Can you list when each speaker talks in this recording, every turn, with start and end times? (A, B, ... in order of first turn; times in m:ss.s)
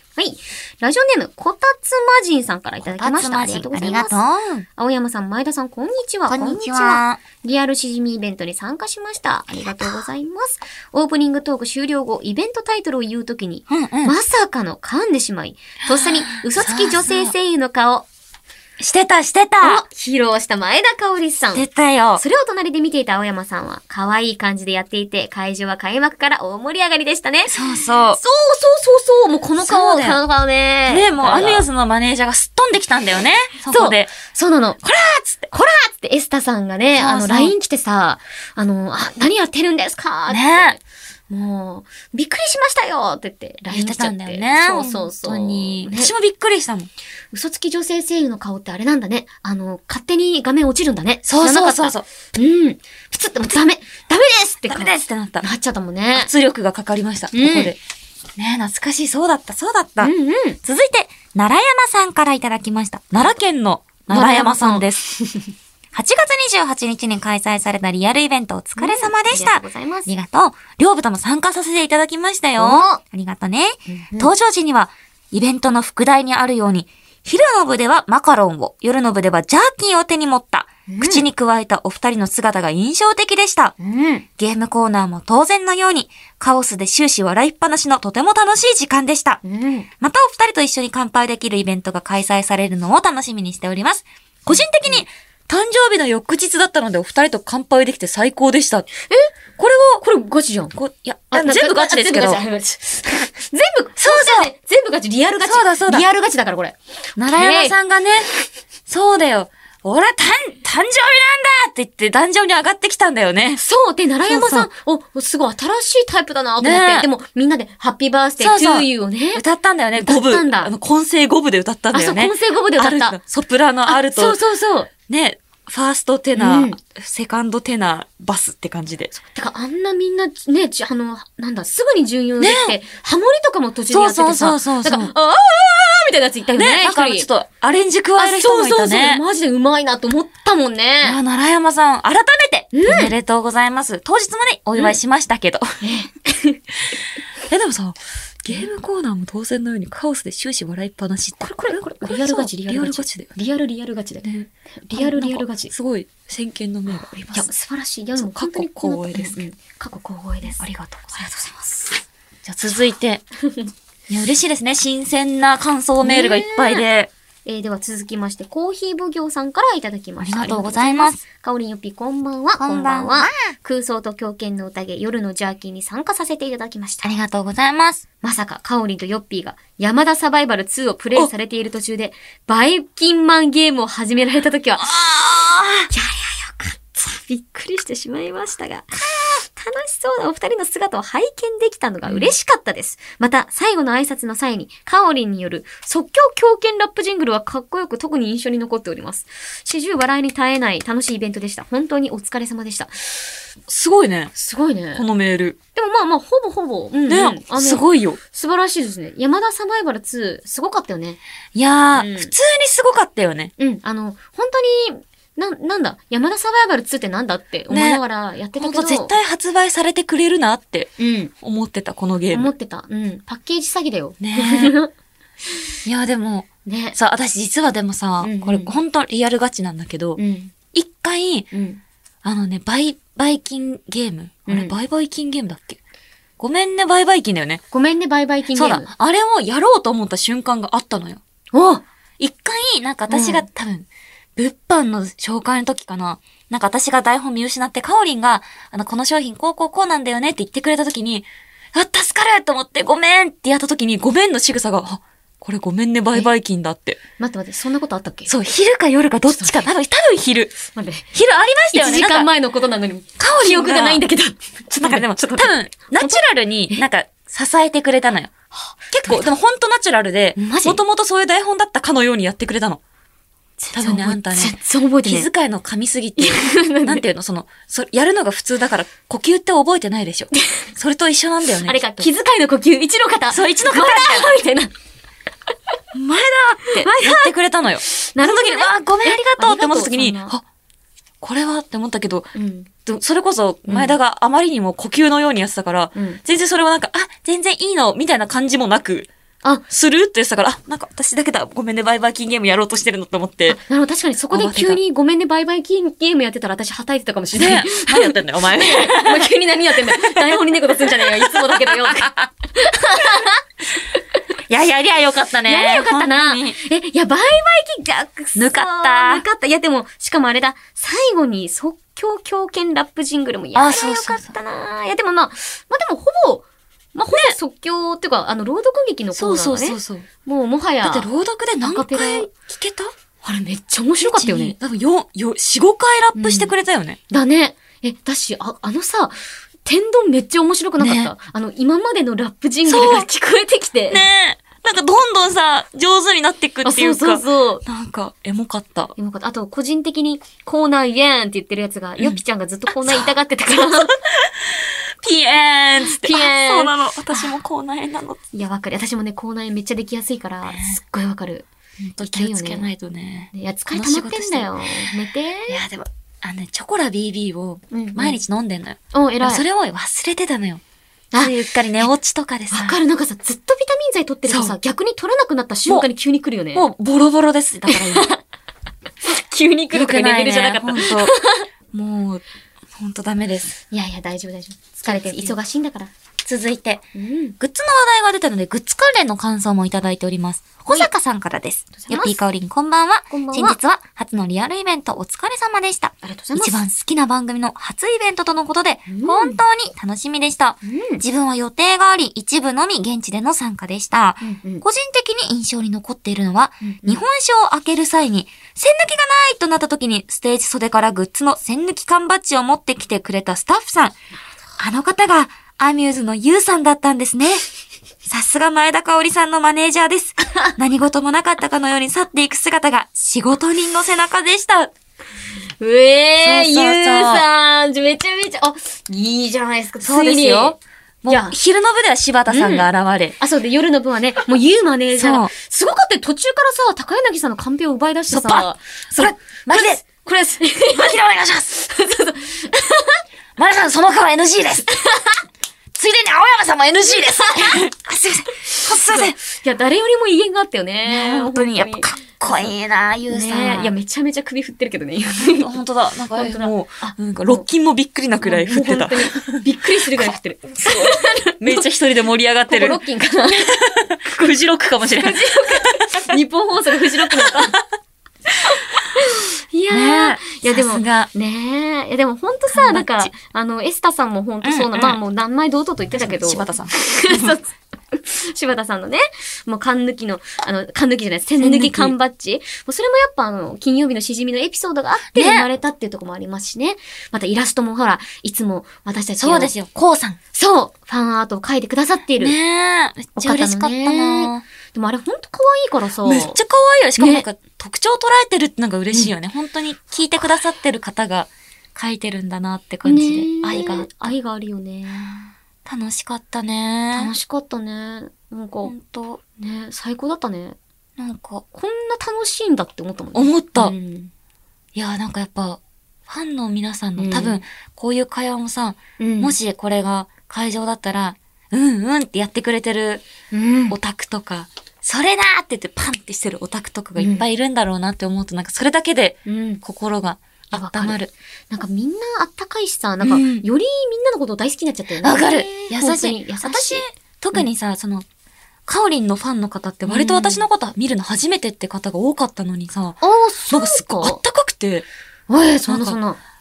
0:00.2-0:04.2 A
0:02.8-0:04.6 B
0:04.8-0:18.1 A
0:06.3-0:07.2 B
0:13.7-0:14.2 B
0:15.9-0:17.3 B
0:18.8-0:19.8 B
0:19.6-0:21.6 A
0:21.5-0:22.2 B
0:22.2-0:31.7 A
0:27.5-0:28.2 B
0:29.6-0:30.2 B
0:30.9-0:34.1 B
0:33.7-0:34.8 A
0:34.8-0:35.5 B
0:35.5-0:46.1 A
0:36.9-0:37.5 B
0:40.3-0:40.8 B
0:43.7-0:46.9 B
0:47.3-0:56.3 A
0:51.2-0:52.0 B
0:54.7-0:55.5 B
0:56.1-0:57.8 B
0:57.3-0:57.7 A
0:58.4-1:00.1 B
1:00.0-1:00.6 A
1:00.6-1:05.2 B
1:04.1-1:05.5 A
1:05.9-1:23.7 B
1:08.8-1:10.1 A
1:12.6-1:13.0 A
1:13.9-1:14.3 A
1:20.9-1:21.2 A
1:23.8-1:24.2 A
1:24.4-1:29.4 B
1:29.4-1:29.9 A
1:30.0-1:38.8 B
1:34.5-1:35.0 A
1:39.6-1:40.0 B
1:40.0-1:40.7 A
1:40.7-1:42.4 B
1:41.3-1:47.7 A
1:44.0-1:44.5 B
1:45.4-1:46.0 B
1:47.2-1:48.3 B
1:48.9-1:53.6 B
1:53.6-1:59.4 A
1:54.2-1:54.7 B
1:56.6-1:57.1 B
1:58.4-2:04.4 B
2:00.0-2:00.7 A
2:01.9-2:03.2 A
2:03.9-2:04.9 A
2:05.1-2:09.1 B
2:06.3-2:06.8 A
2:09.1-2:17.3 A
2:12.4-2:12.8 B
2:13.9-2:15.1 B
2:16.6-2:19.2 B
2:18.2-2:21.2 A
2:21.0-2:25.8 B
2:22.7-2:23.1 A
2:25.8-2:26.6 A
2:27.5-2:33.3 B
2:31.4-2:34.3 A
2:34.2-2:37.5 B
2:34.9-2:35.7 A
2:36.9-2:40.6 A
2:38.2-2:39.4 B
2:40.6-2:41.3 B
2:41.1-2:41.9 A
2:42.4-2:43.2 B
2:43.4-2:43.7 A
2:44.1-2:47.1 B
2:46.0-2:46.8 A
2:47.4-2:57.1 A
2:50.2-2:51.2 B
2:52.6-2:53.4 B
2:57.0-2:58.0 B
2:58.2-3:04.9 A
3:04.8-3:05.9 B
3:05.9-3:23.2 A
3:12.1-3:12.3 B
3:23.7-3:24.3 B
3:24.3-3:25.0 A
3:24.9-3:25.6 B
3:25.7-3:31.2 A
3:27.1-3:28.2 B
3:31.5-3:33.5 B
3:32.0-3:32.3 A
3:33.6-3:39.1 A
3:37.7-3:38.0 B
3:38.6-3:40.9 B
3:41.0-3:41.3 A
3:41.4-3:42.5 B
3:42.3-3:44.9 A
3:44.2-3:44.8 B
3:45.8-3:50.2 B
3:46.6-3:47.0 A
3:48.2-3:48.7 A
3:50.2-3:50.5 A
3:50.7-3:51.5 B
3:51.5-3:51.8 A
3:52.2-3:55.8 B
3:54.5-3:54.7 A
3:56.4-3:57.6 B
3:57.7-3:58.9 A
3:58.5-4:01.2 B
4:01.5-4:01.8 A
4:02.2-4:17.0 B
4:03.1-4:03.4 A
4:17.2-4:18.3 A
4:18.3-4:20.6 B
4:19.3-4:19.6 A
4:20.7-4:21.1 A
4:21.1-4:22.3 B
4:21.7-4:26.8 A
4:23.2-4:24.0 B
4:24.8-4:28.3 B
4:28.9-4:32.8 B
4:30.4-4:30.8 A
4:33.6-4:35.3 A
4:33.7-4:42.1 B
4:36.2-4:37.0 A
4:40.3-4:40.6 A
4:41.6-4:44.7 A
4:43.3-4:44.3 B
4:45.9-4:50.4 B
4:46.6-4:47.3 A
4:47.8-4:50.3 A
4:51.2-4:52.3 B
4:52.3-4:52.7 A
4:52.8-4:59.1 B
4:53.6-4:54.0 A
4:55.9-4:56.2 A
4:59.7-5:03.6 B
5:03.5-5:13.4 A
5:04.3-5:04.8 B
5:07.4-5:09.3 B
5:09.8-5:12.3 B
5:14.5-5:16.6 B
5:15.4-5:31.1 A
5:18.4-5:19.2 B
5:23.5-5:24.3 B
5:29.1-5:30.1 B
5:30.8-5:32.9 B
5:31.6-5:32.3 A
5:33.2-5:34.5 A
5:34.1-5:37.0 B
5:36.1-5:36.5 A
5:37.1-5:44.1 A
5:40.8-5:41.1 B
5:42.6-5:43.1 B
5:43.9-5:48.9 B
5:46.6-5:47.6 A
5:49.0-5:54.0 A
5:52.8-5:58.2 B
5:55.8-5:57.3 A
5:58.3-6:01.5 A
6:00.5-6:00.8 B
6:01.8-6:04.5 B
6:02.0-6:02.7 A
6:03.3-6:05.6 A
6:05.5-6:10.6 B
6:07.7-6:08.2 A
6:08.9-6:09.4 A
6:11.1-6:11.9 A
6:11.2-6:12.8 B
6:12.5-6:16.7 A
6:14.3-6:14.5 B
6:16.5-6:18.1 B
6:17.7-6:18.2 A
6:19.0-6:21.4 A
6:19.7-6:21.1 B
6:21.7-6:22.2 B
6:22.7-6:23.6 B
6:23.7-6:25.9 A
6:24.8-6:25.4 B
6:26.2-6:26.8 B
6:26.9-6:27.4 A
6:27.4-6:54.0 B
6:31.8-6:32.2 A
6:33.1-6:33.6 A
6:36.0-6:36.6 A
6:38.9-6:39.4 A
6:40.6-6:41.0 A
6:44.2-6:44.6 A
6:46.6-6:47.0 A
6:54.6-6:57.4 B
6:58.0-7:04.7 B
7:05.6-7:11.4 A
7:06.2-7:07.2 B
7:09.8-7:13.2 B
7:12.3-7:12.7 A
7:13.2-7:21.0 A
7:15.0-7:15.3 B
7:18.1-7:19.8 B
7:20.7-7:21.6 B
7:21.5-7:23.0 A
7:23.4-7:24.7 B
7:24.7-7:25.2 A
7:25.7-7:29.2 B
7:26.9-7:27.6 A
7:28.5-7:32.5 A
7:30.8-7:33.7 B
7:33.1-7:35.5 A
7:35.2-7:39.4 B
7:36.1-7:37.4 A
7:38.2-7:41.7 A
7:39.9-7:46.1 B
7:42.5-7:43.5 A
7:44.9-7:47.6 A
7:47.1-7:47.5 B
7:48.4-8:09.5 A
7:49.7-7:51.1 B
7:52.5-7:53.1 B
7:54.4-7:55.0 B
7:55.9-7:57.4 B
8:01.4-8:01.9 B
8:05.1-8:05.5 B
8:09.2-8:10.2 B
8:10.3-8:12.4 A
8:12.2-8:14.4 B
8:13.2-8:16.4 A
8:16.0-8:24.1 B
8:17.0-8:17.2 A
8:22.8-8:25.3 A
8:25.6-8:27.1 B
8:26.9-8:28.7 A
8:28.6-8:29.2 B
8:29.4-8:30.6 A
8:31.0-8:31.4 B
8:31.5-8:34.1 A
8:33.1-8:33.7 B
8:34.7-8:43.0 B
8:37.0-8:37.4 A
8:39.0-8:39.3 A
8:43.3-8:43.8 A
8:43.7-8:51.1 B
8:47.0-8:47.2 A
8:49.2-8:49.6 A
8:50.5-8:51.0 A
8:51.5-8:57.4 A
8:53.0-8:53.4 B
8:55.0-8:58.0 B
8:58.7-9:03.0 B
8:59.8-9:00.4 A
9:03.0-9:04.2 A
9:03.5-9:04.8 B
9:05.3-9:06.2 A
9:05.7-9:06.0 B